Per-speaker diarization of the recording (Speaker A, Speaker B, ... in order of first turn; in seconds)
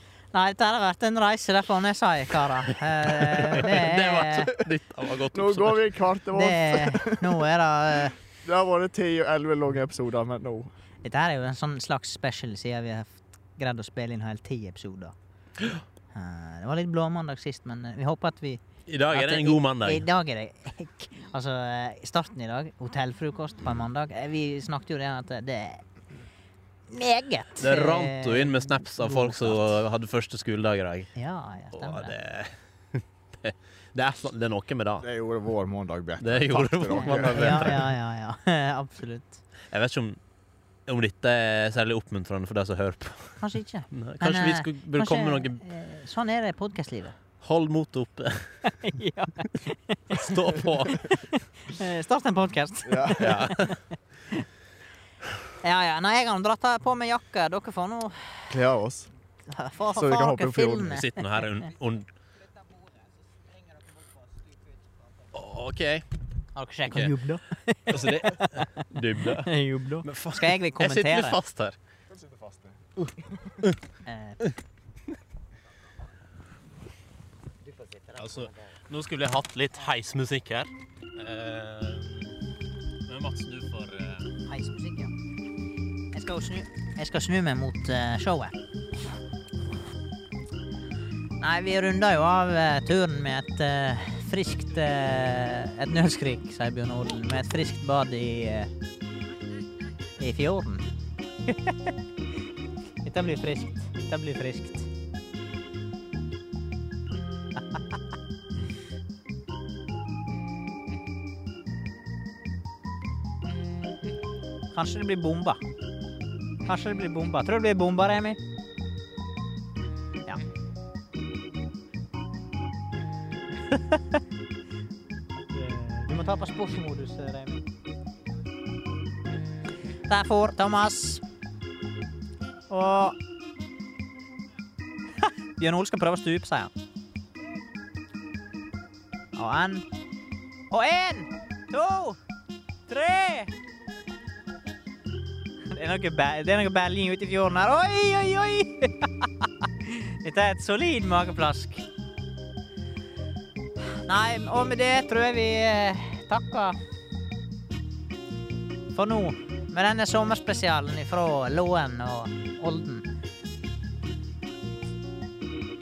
Speaker A: 0.3-4.6, 6.3-8.2, 11.0-15.1, 16.1-18.6, 19.1-25.8, 26.9-29.8, 31.2-32.1, 36.9-39.4, 43.4-47.2, 48.6-54.5, 55.6-58.5, 59.5-61.2, 66.6-71.4, 74.1-74.4, 84.5-85.1, 86.1-88.6, 91.4-98.7, 100.2-100.9, 101.5-101.9, 103.0-104.9, 114.7-115.6, 116.7-118.4, 123.7-124.0, 125.5-127.6, 130.1-131.2, 132.7-133.2, 135.2-136.7, 139.3-139.9, 140.7-142.2, 142.9-143.5, 145.7-151.9, 154.1-156.8, 158.9-163.1
Speaker B: 3.0-5.9, 18.9-20.1, 27.6-31.1, 31.7-35.1, 36.2-37.9, 39.7-40.2, 40.9-45.6, 47.4-48.6, 50.1-51.1, 53.2-53.8, 60.9-62.1, 65.3-66.0, 67.9-71.8, 78.1-82.4, 83.1-84.3
Speaker C: 5.3-7.5, 8.4-10.7, 35.0-37.8, 52.9-53.3, 58.5-59.1, 59.9-61.0, 72.1-73.6